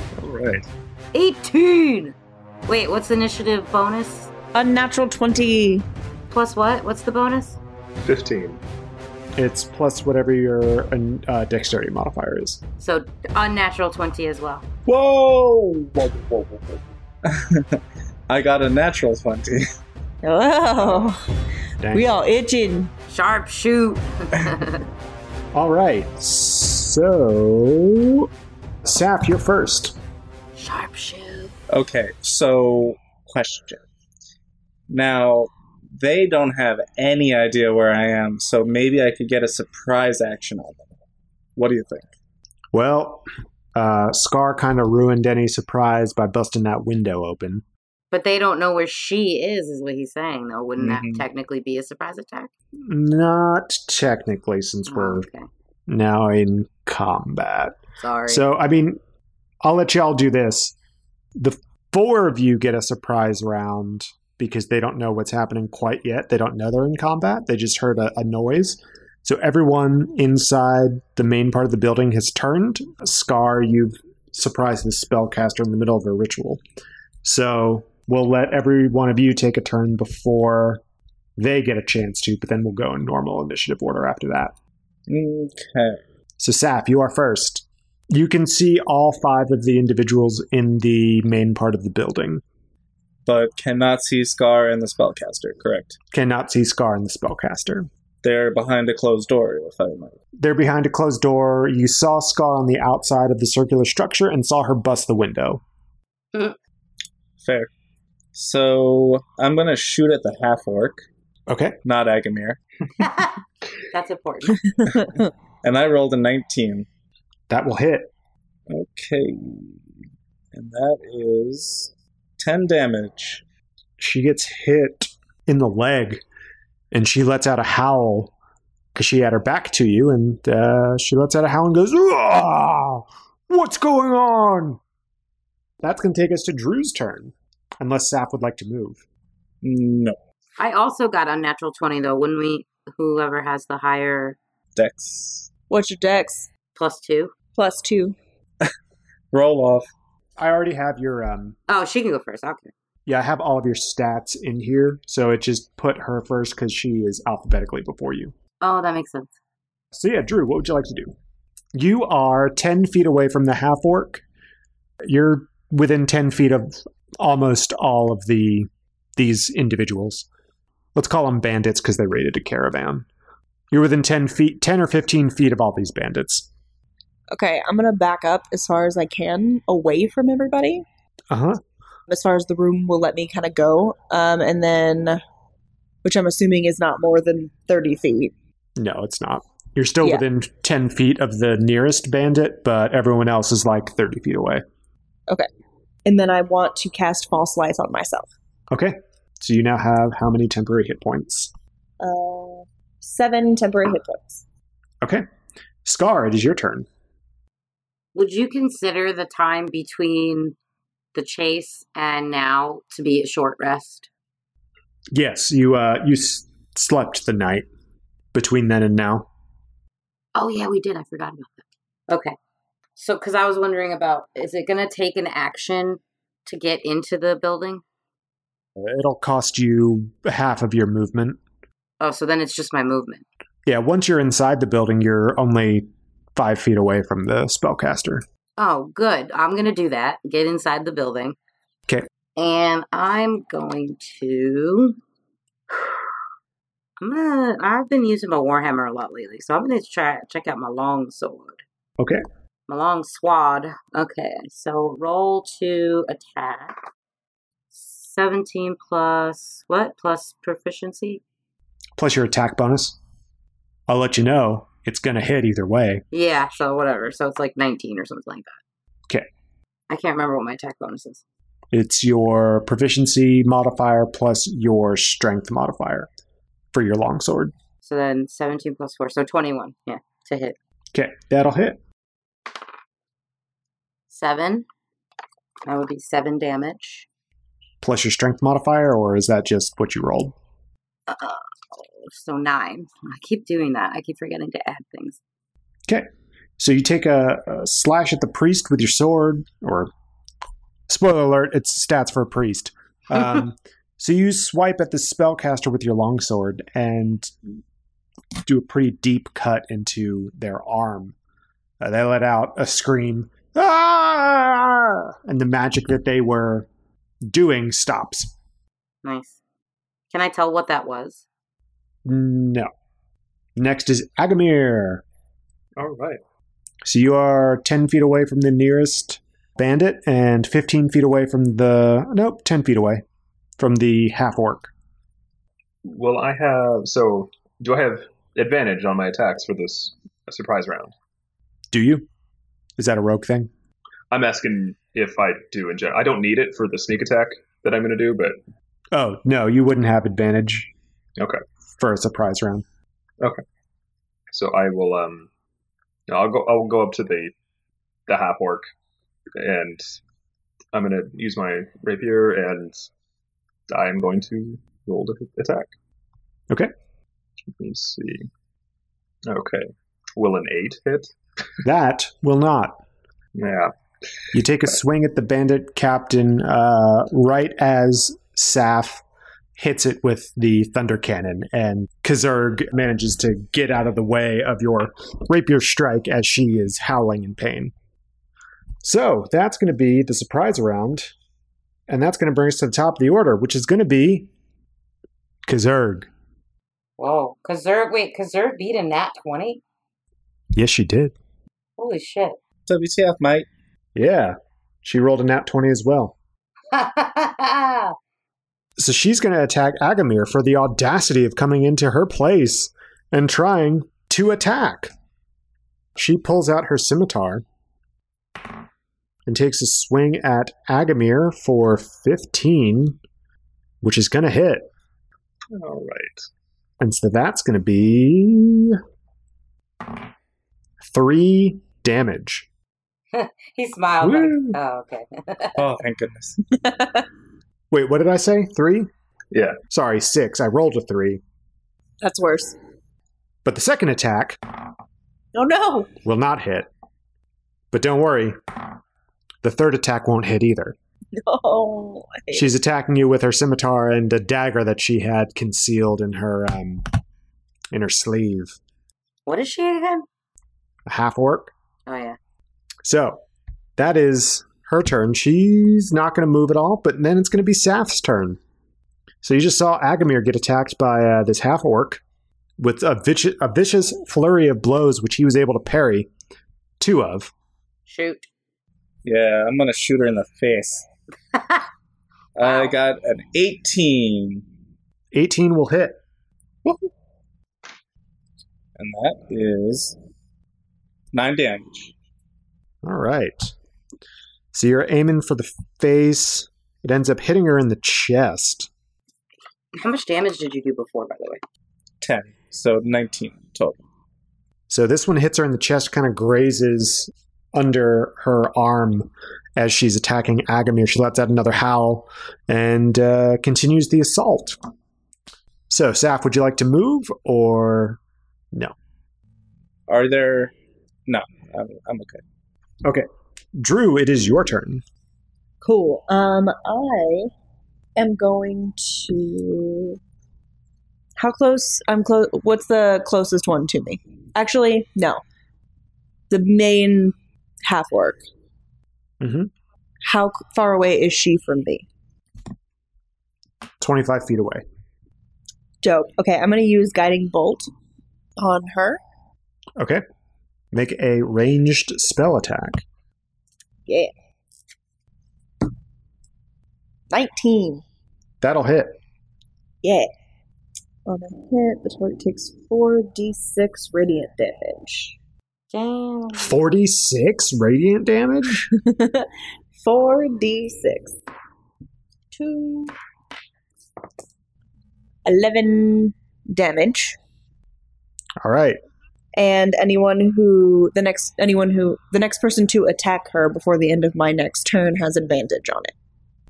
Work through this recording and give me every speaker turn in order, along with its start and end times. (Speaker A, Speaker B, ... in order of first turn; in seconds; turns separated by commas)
Speaker A: 0.2-0.7, Speaker B: 1.1-2.1, Speaker B: 2.7-4.3, Speaker C: 4.5-5.8, Speaker B: 6.3-7.6, Speaker A: 8.0-8.6, Speaker D: 9.3-12.6, Speaker B: 12.8-14.6, Speaker E: 14.8-19.6, Speaker C: 20.2-21.2, Speaker D: 21.8-22.1, Speaker C: 21.9-22.9, Speaker B: 23.1-24.8, Speaker D: 25.5-28.3, Speaker D: 28.8-30.0, Speaker B: 30.6-31.5, Speaker E: 31.7-33.8, Speaker E: 34.9-40.9, Speaker E: 41.5-42.1, Speaker D: 42.7-47.6, Speaker B: 48.1-52.5, Speaker E: 50.8-51.2, Speaker D: 52.8-55.3, Speaker B: 54.9-55.5, Speaker D: 55.9-57.8, Speaker B: 58.0-58.5, Speaker D: 58.3-59.0, Speaker D: 59.6-60.7, Speaker D: 61.4-76.6, Speaker D: 77.2-80.8, Speaker D: 81.4-84.5, Speaker E: 85.1-86.0, Speaker D: 86.4-92.4, Speaker E: 93.2-96.0, Speaker D: 96.1-97.9, Speaker E: 98.2-100.2, Speaker D: 100.4-105.6, Speaker E: 107.4-107.7, Speaker E: 108.3-111.0, Speaker D: 111.5-111.8, Speaker E: 111.8-112.6, Speaker B: 113.0-113.4, Speaker B: 113.9-114.6, Speaker C: 114.8-115.3, Speaker E: 115.6-116.8, Speaker D: 117.5-118.1, Speaker E: 118.7-119.8, Speaker E: 120.5-123.4, Speaker D: 124.0-126.2, Speaker D: 126.9-128.3, Speaker D: 128.9-134.8, Speaker D: 135.8-139.0, Speaker E: 139.6-140.2, Speaker B: 140.6-144.4, Speaker E: 144.8-145.5, Speaker C: 145.7-146.5, Speaker B: 146.7-147.3, Speaker C: 147.5-148.1, Speaker E: 149.3-149.9, Speaker D: 150.4-151.6, Speaker B: 151.7-152.7, Speaker D: 153.1-158.3, Speaker B: 158.6-159.3, Speaker D: 159.9-161.1, Speaker D: 161.7-164.2, Speaker D: 165.0-170.3, Speaker D: 170.9-173.1, Speaker D: 173.7-176.5, Speaker C: 177.3-180.8, Speaker D: 181.3-181.6, Speaker C: 182.1-185.2, Speaker C: 186.0-188.3, Speaker D: 188.8-194.6, Speaker C: 196.0-198.3, Speaker D: 198.7-201.5, Speaker C: 202.0-204.4, Speaker D: 205.8-206.9, Speaker B: 208.1-210.6, Speaker B: 211.1-214.1, Speaker D: 215.1-217.7, Speaker D: 218.3-219.3, Speaker B: 220.3-222.3, Speaker B: 222.9-227.8, Speaker D: 228.8-231.4, Speaker B: 232.0-233.2, Speaker D: 233.7-238.2, Speaker B: 238.6-241.3, Speaker B: 242.3-245.0, Speaker B: 245.7-246.0, Speaker B: 247.0-251.6, Speaker B: 252.7-256.8, Speaker B: 257.7-261.2, Speaker D: 262.0-263.0, Speaker D: 263.9-266.0, Speaker B: 266.1-268.6, Speaker B: 269.9-271.2, Speaker D: 271.7-276.1, Speaker D: 276.7-277.5, Speaker B: 277.8-280.6, Speaker D: 280.9-281.8, Speaker B: 284.1-284.7, Speaker B: 285.6-287.1, Speaker D: 287.8-290.4, Speaker B: 291.1-295.2, Speaker D: 295.9-299.9, Speaker D: 300.9-307.3, Speaker D: 308.4-311.1, Speaker D: 311.8-316.7, Speaker D: 317.3-318.3, Speaker B: 319.0-319.4, Speaker B: 320.1-321.2, Speaker D: 322.0-322.7, Speaker D: 323.6-325.0, Speaker A: 325.8-326.2, Speaker D: 326.8-333.0, Speaker D: 333.6-334.7, Speaker A: 335.8-340.9, Speaker D: 341.7-342.1, Speaker D: 342.8-343.5, Speaker A: 344.1-348.4, Speaker D: 348.9-350.7, Speaker D: 351.8-352.6, Speaker A: 354.3-355.3, Speaker A: 356.1-357.3, Speaker A: 358.1-358.7, Speaker A: 359.3-360.0, Speaker A: 360.7-362.9, Speaker A: 363.7-365.7, Speaker A: 367.6-368.3, Speaker A: 369.3-371.1, Speaker D: 371.6-372.8, Speaker A: 373.3-373.7, Speaker D: 374.3-379.0, Speaker D: 379.6-387.7, Speaker D: 388.8-391.1, Speaker D: 391.9-394.3, Speaker D: 395.4-396.1, Speaker B: 397.0-399.6, Speaker D: 400.5-401.1, Speaker B: 401.8-402.4, Speaker E: 402.7-403.5, Speaker D: 403.9-406.1, Speaker B: 406.7-407.9, Speaker D: 408.8-414.9, Speaker D: 415.9-417.4, Speaker D: 419.3-423.0, Speaker D: 423.8-424.7, Speaker A: 425.5-426.2, Speaker D: 426.8-428.8, Speaker D: 430.8-432.5, Speaker B: 433.1-435.6, Speaker D: 434.0-434.6, Speaker E: 435.6-436.4, Speaker C: 436.5-437.1, Speaker D: 437.7-438.9, Speaker A: 439.3-439.6, Speaker D: 439.7-441.2, Speaker C: 442.0-442.6, Speaker D: 443.4-444.4, Speaker C: 445.3-445.9, Speaker D: 446.0-446.7, Speaker D: 447.7-448.4, Speaker D: 449.4-450.8, Speaker C: 451.1-452.5, Speaker D: 452.3-456.9, Speaker D: 457.7-458.6, Speaker B: 459.2-460.1, Speaker D: 460.9-461.5, Speaker B: 461.9-462.2, Speaker D: 462.8-463.2, Speaker D: 463.8-468.4, Speaker D: 469.2-472.0, Speaker D: 472.6-476.1, Speaker D: 476.8-477.3, Speaker B: 477.9-478.3, Speaker E: 479.0-480.9, Speaker B: 481.3-481.6, Speaker E: 482.4-484.4, Speaker B: 482.4-482.7, Speaker D: 485.1-486.0, Speaker E: 488.8-489.9, Speaker E: 491.1-491.9, Speaker D: 492.8-493.5, Speaker D: 494.5-498.7, Speaker B: 499.8-501.4, Speaker E: 502.0-503.8, Speaker D: 504.7-514.6, Speaker D: 515.7-518.0, Speaker E: 519.9-520.5, Speaker E: 521.1-522.2, Speaker D: 522.8-524.8, Speaker C: 525.6-527.3, Speaker C: 528.0-530.0, Speaker C: 531.2-535.2, Speaker C: 536.3-538.2, Speaker D: 539.2-539.5, Speaker C: 540.0-541.8, Speaker D: 543.8-544.6, Speaker C: 545.8-547.7, Speaker C: 548.4-549.0, Speaker D: 549.8-550.0, Speaker D: 550.7-552.8, Speaker C: 557.1-557.8, Speaker D: 558.4-559.0, Speaker C: 559.8-560.1, Speaker C: 561.0-565.1, Speaker B: 565.7-566.5, Speaker D: 566.4-568.7, Speaker C: 568.7-571.1, Speaker C: 572.3-572.9, Speaker C: 575.2-577.2, Speaker D: 578.4-578.8, Speaker C: 579.4-585.9